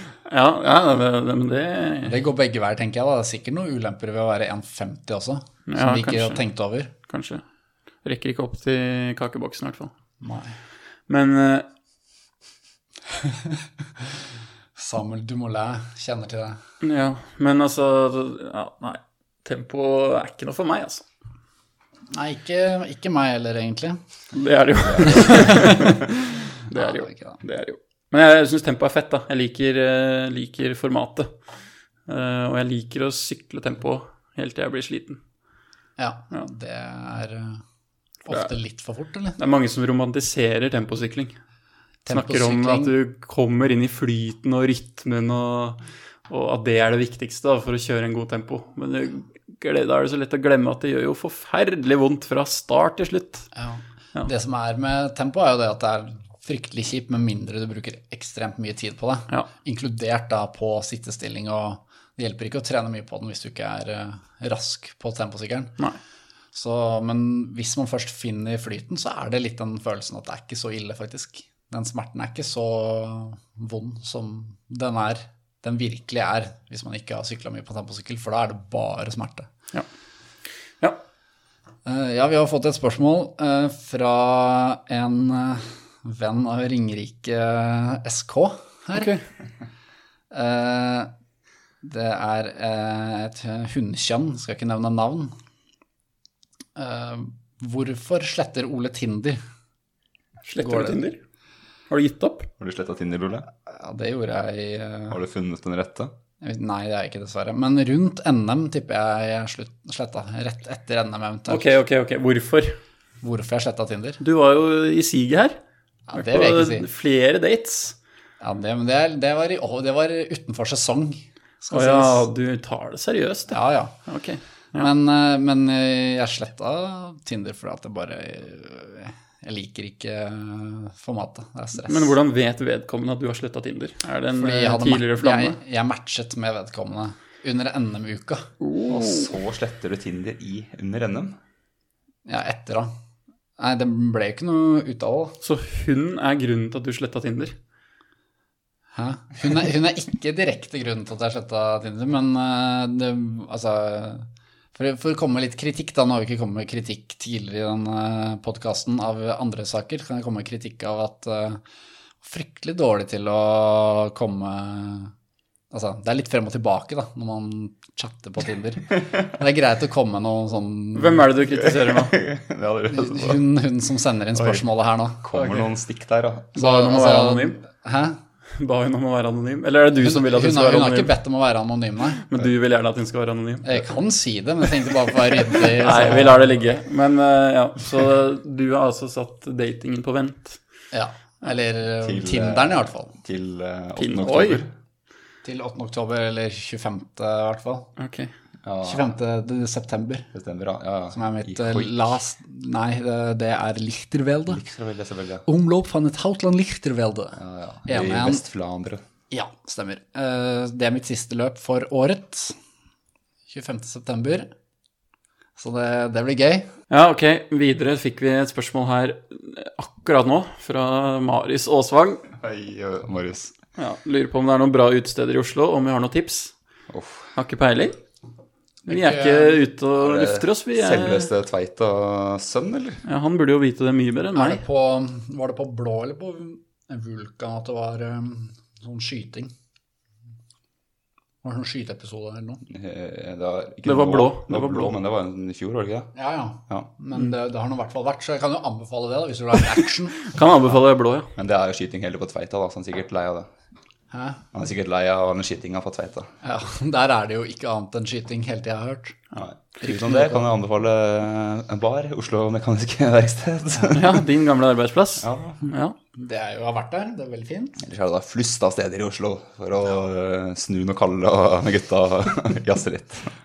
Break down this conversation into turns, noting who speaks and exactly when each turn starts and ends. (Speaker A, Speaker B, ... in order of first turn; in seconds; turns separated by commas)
Speaker A: 0.2-2.2, Speaker B: 2.1-6.9, Speaker A: 5.7-6.4, Speaker A: 7.1-7.4, Speaker A: 8.0-9.9, Speaker B: 10.2-10.6, Speaker A: 11.1-11.7, Speaker B: 13.2-13.6, Speaker B: 14.8-16.6, Speaker A: 16.8-21.1, Speaker B: 22.1-24.0, Speaker A: 24.3-31.3, Speaker B: 25.0-26.0, Speaker B: 26.7-27.4, Speaker A: 32.1-35.2, Speaker B: 36.0-37.6, Speaker B: 38.2-39.4, Speaker A: 39.4-41.4, Speaker B: 42.0-42.9, Speaker A: 42.1-53.5, Speaker B: 53.5-65.8, Speaker B: 66.5-79.5, Speaker B: 81.8-89.1, Speaker A: 88.9-89.2, Speaker B: 90.3-91.1, Speaker B: 91.8-95.3, Speaker B: 96.8-99.4, Speaker A: 100.5-101.2, Speaker B: 100.6-101.0, Speaker A: 101.9-102.5, Speaker C: 102.6-103.5, Speaker B: 103.7-105.2, Speaker C: 105.1-106.1, Speaker B: 106.4-111.7, Speaker A: 111.5-112.8, Speaker B: 113.2-114.2, Speaker A: 114.2-115.6, Speaker B: 116.1-116.9, Speaker A: 116.1-118.0, Speaker B: 118.4-122.3, Speaker A: 121.7-124.9, Speaker B: 123.5-124.0, Speaker B: 124.8-132.1, Speaker A: 131.8-135.6, Speaker B: 134.4-138.5, Speaker A: 138.6-139.3, Speaker C: 138.9-141.4, Speaker B: 142.3-142.9, Speaker B: 143.6-145.4, Speaker A: 145.4-147.6, Speaker B: 148.9-161.6, Speaker B: 162.2-165.1, Speaker B: 165.7-171.3, Speaker A: 170.9-172.1, Speaker C: 171.5-173.4, Speaker B: 172.9-175.3, Speaker C: 175.2-176.5, Speaker A: 175.3-175.6, Speaker A: 176.6-177.6, Speaker B: 176.6-178.2, Speaker A: 178.5-181.1, Speaker B: 180.0-182.3, Speaker A: 182.2-183.8, Speaker B: 183.6-186.4, Speaker A: 185.6-190.6, Speaker B: 190.9-193.1, Speaker C: 192.0-194.7, Speaker A: 193.9-194.6, Speaker B: 195.4-197.9, Speaker A: 198.0-198.3, Speaker C: 198.6-199.1, Speaker B: 198.8-200.3, Speaker C: 200.3-201.9, Speaker B: 201.1-204.6, Speaker C: 204.5-205.4, Speaker B: 205.4-208.4, Speaker C: 207.4-209.1, Speaker B: 209.3-212.6, Speaker B: 213.5-214.5, Speaker B: 215.6-216.7, Speaker A: 216.9-222.2, Speaker C: 222.4-223.5, Speaker A: 223.8-226.5, Speaker C: 226.9-227.3, Speaker A: 227.3-228.0, Speaker A: 228.9-231.3, Speaker B: 228.9-229.6, Speaker C: 230.0-233.0, Speaker A: 233.1-234.6, Speaker B: 234.3-239.5, Speaker B: 241.4-242.6, Speaker C: 242.7-246.1, Speaker A: 243.8-245.0, Speaker B: 246.1-250.3, Speaker A: 250.2-251.3, Speaker C: 251.4-253.5, Speaker B: 254.1-254.4, Speaker C: 254.5-256.3, Speaker B: 256.4-260.4, Speaker C: 259.4-264.2, Speaker A: 263.9-265.9, Speaker C: 265.2-265.6, Speaker B: 266.1-267.8, Speaker C: 267.8-273.3